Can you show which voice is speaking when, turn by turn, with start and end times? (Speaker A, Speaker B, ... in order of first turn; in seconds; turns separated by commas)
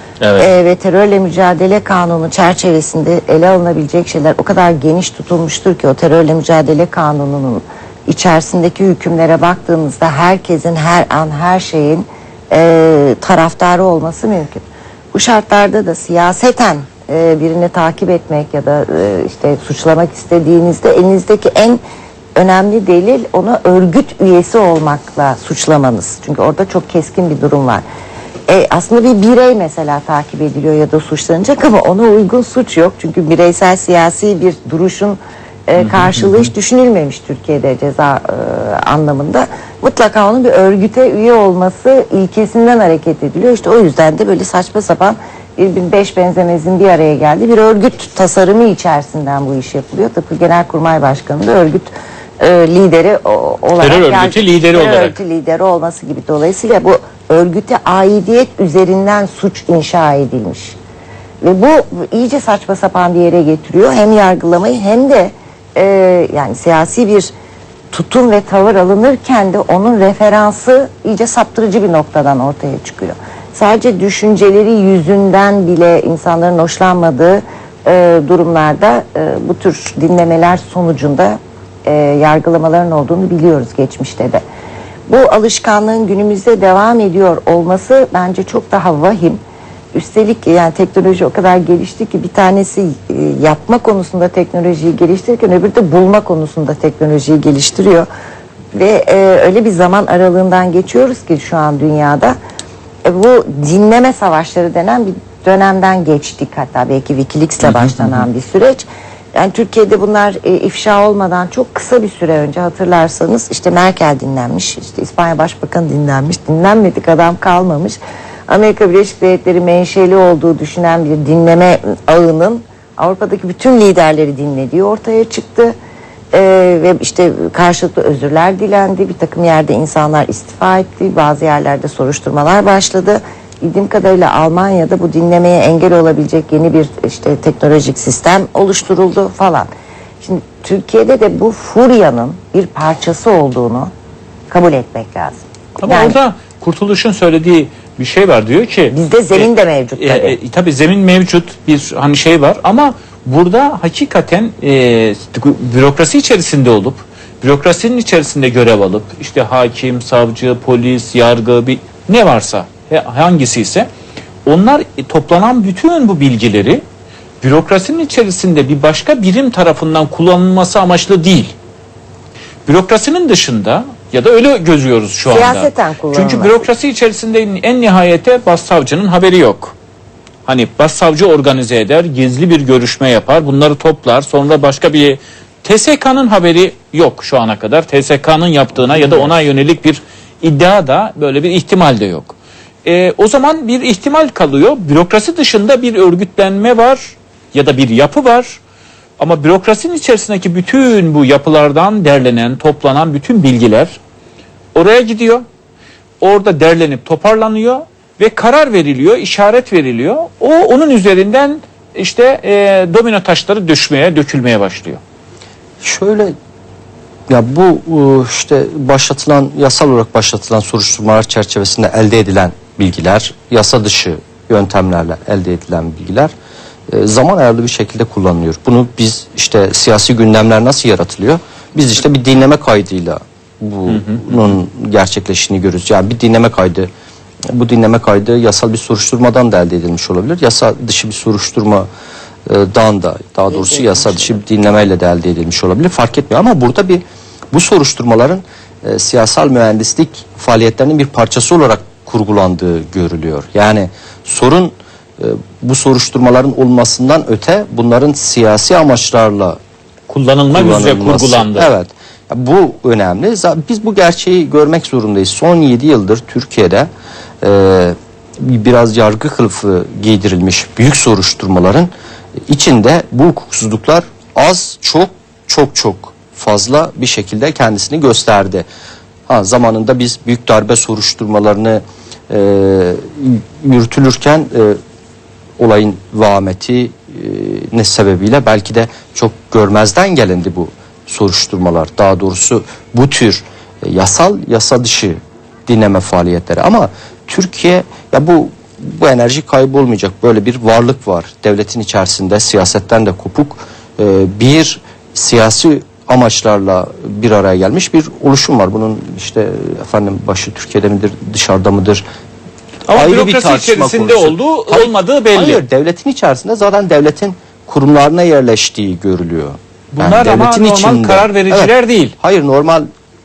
Speaker A: 0.2-0.5, Speaker B: 0.4-21.8, Speaker B: 22.4-27.8, Speaker B: 28.5-60.8, Speaker A: 35.8-36.5, Speaker A: 53.8-55.2, Speaker B: 61.4-67.3, Speaker B: 67.9-84.4, Speaker B: 85.1-89.4, Speaker B: 89.9-98.1, Speaker B: 98.8-102.4, Speaker B: 103.0-125.7, Speaker A: 107.6-108.3, Speaker B: 126.3-139.7, Speaker B: 140.2-143.9, Speaker B: 144.5-146.2, Speaker A: 145.8-163.9, Speaker B: 148.9-150.4, Speaker A: 164.5-166.8, Speaker A: 167.4-171.6, Speaker A: 172.7-179.8, Speaker B: 175.2-176.6, Speaker A: 180.5-198.6, Speaker A: 199.2-204.0, Speaker A: 204.7-205.4, Speaker A: 206.2-215.0, Speaker C: 215.8-216.3, Speaker C: 217.3-226.3, Speaker C: 226.9-236.9, Speaker A: 233.9-234.6, Speaker C: 237.5-241.9, Speaker C: 242.5-259.6, Speaker B: 243.5-244.3, Speaker A: 260.1-261.7, Speaker C: 260.5-266.9, Speaker C: 267.4-271.9, Speaker C: 272.5-278.7, Speaker C: 279.3-284.8, Speaker C: 285.6-312.0, Speaker A: 312.9-315.6, Speaker C: 312.9-322.9, Speaker A: 319.9-322.1